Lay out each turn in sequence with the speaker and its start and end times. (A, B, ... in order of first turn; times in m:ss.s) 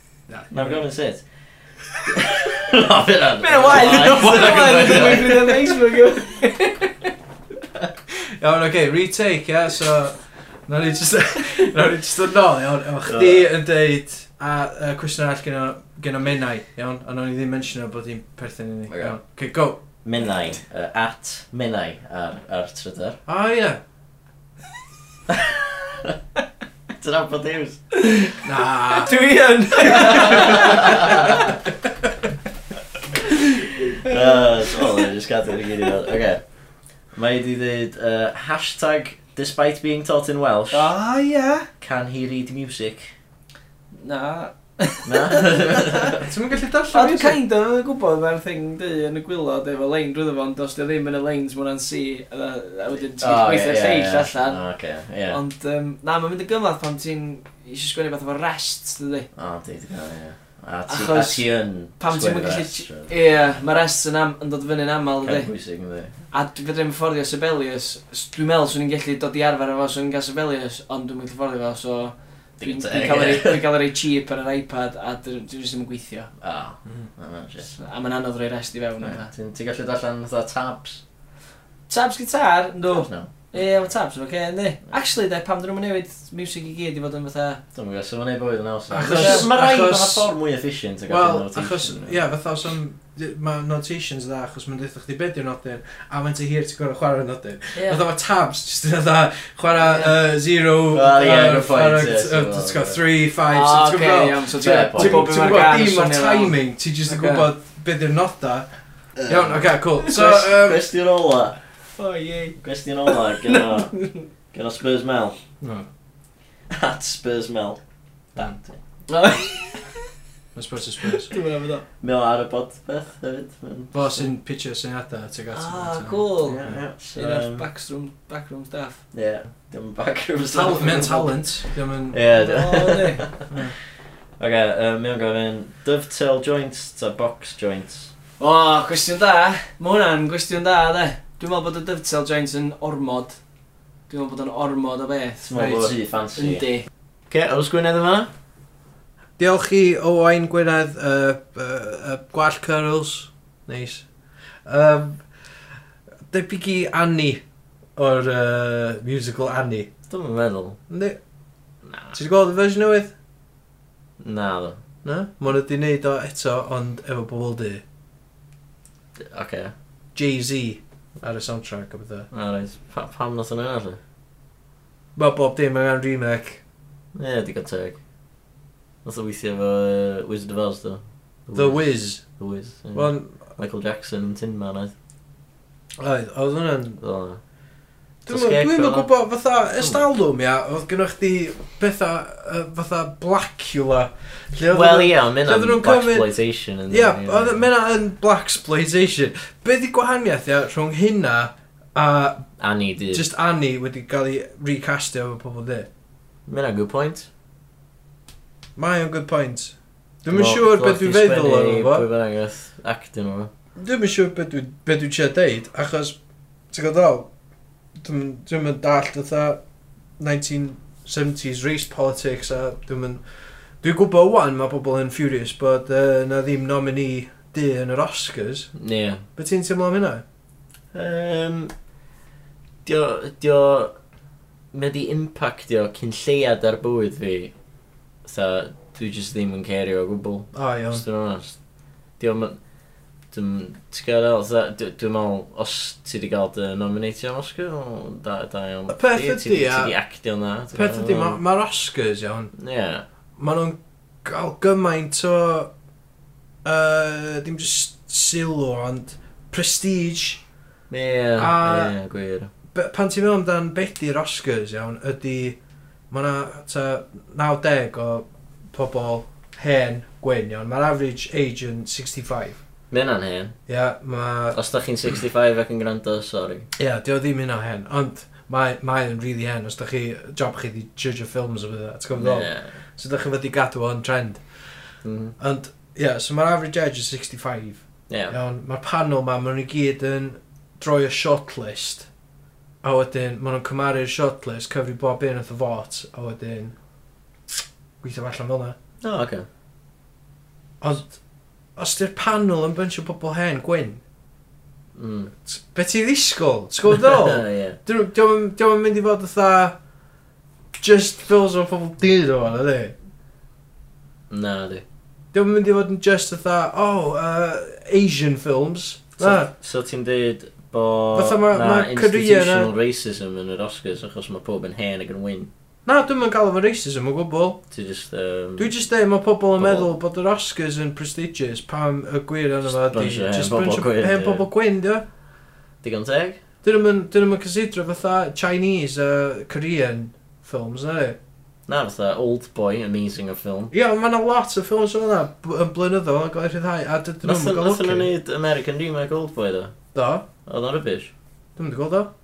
0:00.3-0:00.8 A
0:00.5-0:01.2 B
0:02.0-0:05.8 B
0:03.4-0:06.9 C
0:08.4-0:19.8 A
0:13.0-0:13.5 B
0:18.9-0:19.2 B
0:20.0-0:23.2 B
0:23.3-0:23.8 A
0:25.3-0:26.2 B
0:27.0-0:27.8 B
0:27.9-0:28.4 C
0:28.4-0:29.2 A
0:28.9-0:31.5 C
0:30.0-0:30.9 A
0:30.0-0:31.5 B
0:33.3-0:34.9 C
0:34.0-0:36.4 B
0:37.1-0:40.9 B
0:40.7-0:41.7 C
0:41.8-0:43.1 B
0:44.0-0:46.1 C
0:45.0-0:46.2 B
0:46.2-0:47.4 A
0:46.9-0:54.6 C
0:53.2-0:55.4 B
0:55.3-0:59.3 C
0:59.3-1:03.6 B
1:00.9-1:05.5 C
1:05.2-1:06.2 B
1:06.3-1:16.3 C
1:12.6-1:13.6 B
1:16.4-1:17.7 B
1:17.6-1:19.3 C
1:19.0-1:21.0 B
1:21.9-1:27.6 C
1:22.9-1:23.3 B
1:27.7-1:32.2 B
1:28.9-1:30.3 A
1:29.0-1:29.5 C
1:31.1-1:48.7 A
1:37.7-1:38.0 C
1:39.8-1:40.1 C
1:40.9-1:43.0 B
1:43.5-1:46.6 C
1:44.6-1:45.6 B
1:47.1-1:47.5 C
1:49.2-1:51.6 B
1:49.3-1:50.9 A
1:50.0-1:50.4 C
1:52.0-1:54.3 C
1:52.6-1:54.0 B
1:54.5-1:55.4 B
1:55.6-1:55.8 A
1:56.7-1:57.8 B
1:58.4-1:58.8 B
1:59.1-2:00.0 C
2:00.5-2:01.3 A
2:01.1-2:01.8 C
2:02.0-2:04.3 B
2:03.9-2:06.8 A
2:05.5-2:09.0 C
2:06.4-2:07.6 B
2:09.1-2:11.3 B
2:10.5-2:12.2 A
2:12.1-2:13.5 B
2:12.3-2:13.2 C
2:13.5-2:13.8 A
2:14.4-2:18.1 B
2:18.4-2:23.4 C
2:24.1-2:26.9 C
2:25.4-2:26.6 B
2:27.3-2:28.3 B
2:29.4-2:34.0 A
2:34.6-2:35.2 A
2:36.3-2:37.4 A
2:38.0-2:39.9 A
2:40.1-2:40.8 B
2:40.9-2:41.2 A
2:41.8-2:42.2 B
2:42.1-2:43.1 A
2:44.2-2:44.8 B
2:45.0-2:47.8 A
2:49.2-2:49.7 B
2:50.1-2:52.3 A
2:52.3-2:54.0 B
2:55.2-2:56.6 A
2:57.1-2:58.0 B
2:59.0-3:04.9 B
3:01.5-3:02.3 A
3:02.9-3:03.4 A
3:06.0-3:07.0 A
3:07.0-3:07.4 B
3:08.2-3:16.3 A
3:08.3-3:09.1 B
3:09.8-3:10.0 B
3:14.7-3:17.6 B
3:16.9-3:22.5 A
3:22.6-3:23.2 B
3:23.1-3:25.9 A
3:26.5-3:27.3 B
3:28.8-3:32.0 A
3:30.3-3:33.5 B
3:33.8-3:36.2 A
3:36.7-3:37.3 A
3:38.0-3:39.6 A
3:40.2-3:43.2 A
3:43.8-3:48.7 A
3:48.7-3:49.2 B
3:49.4-3:50.2 A
3:50.9-3:51.7 B
3:52.8-3:54.0 B
3:54.7-3:57.5 B
3:58.2-4:01.6 B
4:00.5-4:01.0 A
4:02.2-4:02.6 B
4:03.3-4:11.4 B
4:08.9-4:09.9 A
4:10.7-4:12.5 A
4:12.6-4:13.0 B
4:13.4-4:15.7 A
4:16.6-4:20.4 A
4:20.9-4:22.5 B
4:21.4-4:22.0 A
4:22.7-4:25.6 A
4:26.1-4:32.6 A
4:32.9-4:33.6 B
4:33.7-4:34.6 A
4:34.5-4:36.7 B
4:36.8-4:52.1 A
4:42.1-4:42.7 B
4:45.0-4:45.4 B
4:48.1-4:48.4 B
4:52.8-4:56.7 A
4:58.0-4:58.8 A
4:59.0-4:59.5 B
5:00.8-5:01.2 A
5:01.8-5:04.0 A
5:04.9-5:05.3 B
5:05.4-5:09.8 A
5:06.9-5:07.8 B
5:10.8-5:13.0 A
5:14.3-5:14.8 B
5:15.3-5:19.5 A
5:19.2-5:25.5 B
5:21.1-5:22.7 A
5:25.8-5:27.6 A
5:27.7-5:28.7 B
5:28.6-5:35.0 A
5:29.6-5:29.9 B
5:32.6-5:34.5 B
5:35.8-5:36.4 B
5:36.6-5:41.2 A
5:41.7-5:43.7 B
5:43.7-5:48.1 A
5:47.2-5:49.7 B
5:49.9-5:50.2 A
5:50.4-5:51.1 B
5:51.6-5:52.1 A